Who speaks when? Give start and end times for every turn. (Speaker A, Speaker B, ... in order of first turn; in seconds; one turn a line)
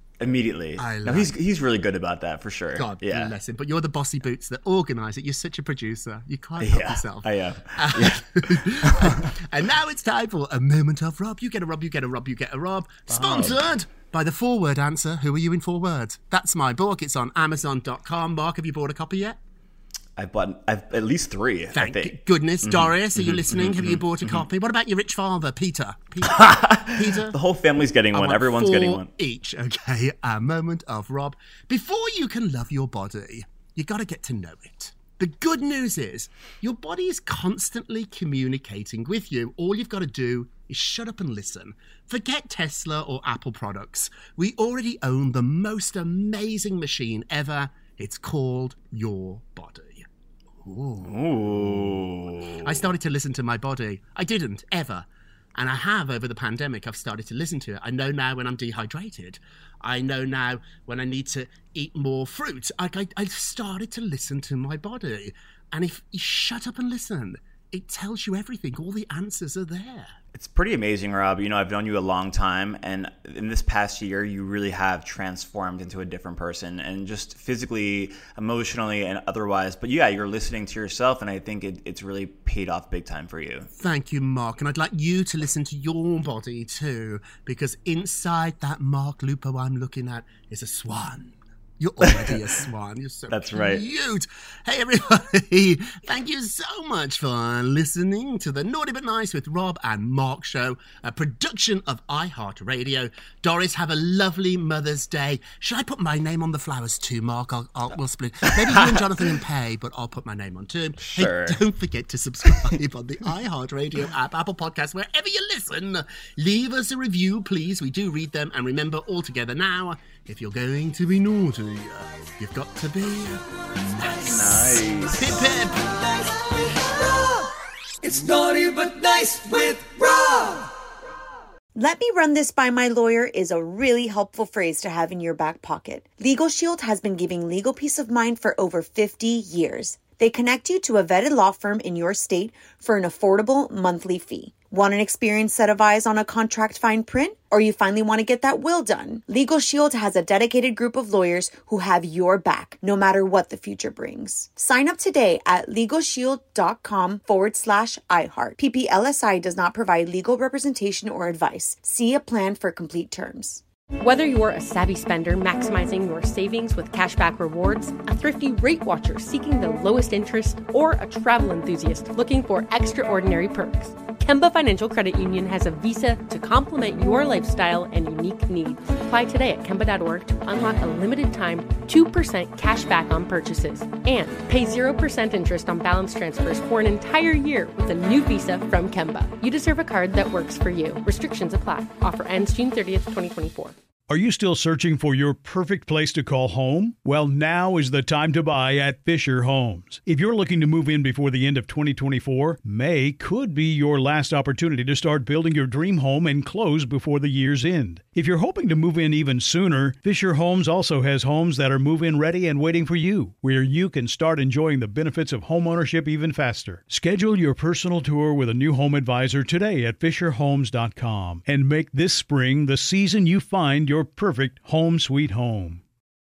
Speaker A: 0.2-3.3
Speaker B: 0.8-1.3
Speaker B: 2.8-19.4
Speaker A: 6.6-9.3
Speaker A: 13.1-13.6
Speaker A: 20.2-24.4
Speaker B: 21.7-27.4
Speaker A: 26.3-29.1
Speaker B: 28.1-50.1
Speaker B: 50.6-70.1
Speaker A: 51.0-52.9
Speaker A: 70.3-83.7
Speaker B: 83.8-126.3
Speaker A: 92.0-92.4
Speaker A: 93.3-93.8
Speaker A: 108.7-109.1
Speaker A: 111.0-111.6
Speaker A: 124.3-125.4
Speaker A: 128.1-128.4
Speaker C: 128.5-130.6
Speaker D: 131.7-163.6
Speaker E: 164.0-193.7
Speaker F: 194.1-225.8